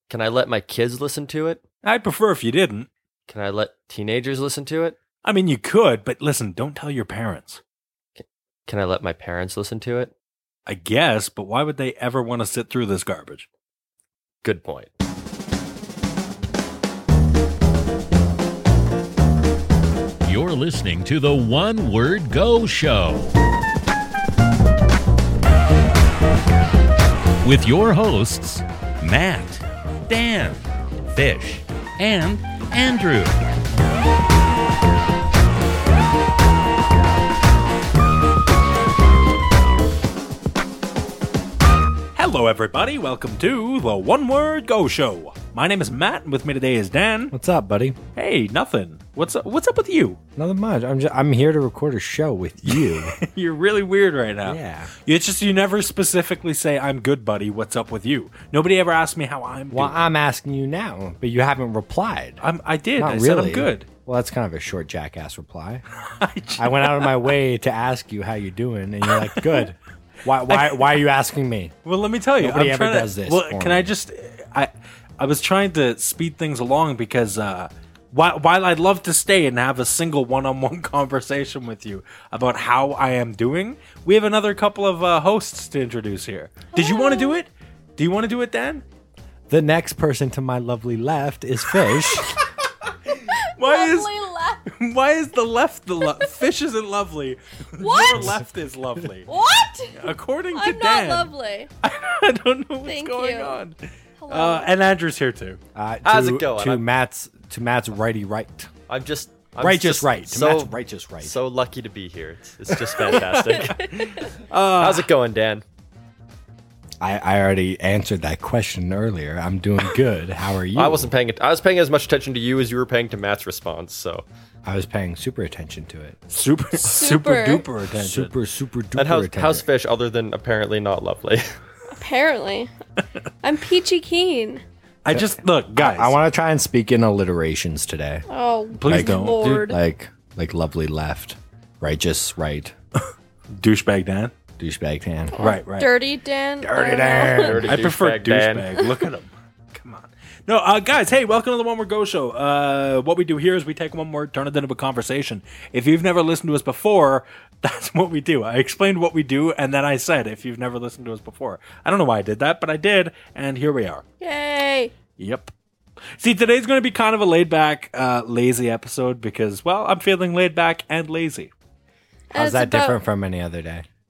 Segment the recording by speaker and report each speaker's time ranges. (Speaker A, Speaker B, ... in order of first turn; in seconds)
Speaker A: 0.1-1.6, 3.3-5.0, 8.2-10.1, 14.4-14.9, 106.0-106.8, 108.9-113.9, 114.8-115.6, 120.8-124.3, 129.0-131.4, 147.2-148.7
Speaker B: 1.8-2.9, 5.2-7.6, 10.7-13.5, 42.1-47.3, 48.1-50.2, 52.6-60.0, 62.4-63.9, 66.1-67.3, 69.1-69.6, 70.5-70.9, 71.8-88.8, 92.1-92.3, 93.1-94.1, 94.7-99.3, 99.9-101.3, 101.8-103.8, 104.3-105.6, 113.0-115.1, 126.3-128.3, 135.0-136.2, 138.7-139.4, 143.5-144.3, 145.4-145.9, 147.6-164.0, 165.2-165.5, 166.1-171.5
Speaker C: 20.2-23.3, 27.4-33.4
Speaker D: 47.3-48.0, 50.4-53.2, 54.5-54.9, 59.7-62.4, 63.0-65.8, 66.6-71.7, 72.4-73.9, 89.5-92.3, 105.8-108.7, 109.6-111.4, 117.0-121.1, 124.6-126.2, 128.0-129.7, 135.1-138.2, 138.8-142.7, 144.6-145.3, 146.6-147.8, 172.3-173.9
Speaker E: 86.7-87.4, 93.3-94.7, 97.8-98.4, 99.3-101.7, 102.8-103.6, 104.2-104.7, 113.7-114.2, 126.9-127.7, 131.9-132.7, 133.4-134.6, 138.3-139.8, 145.3-147.7, 164.2-164.9, 172.3-173.0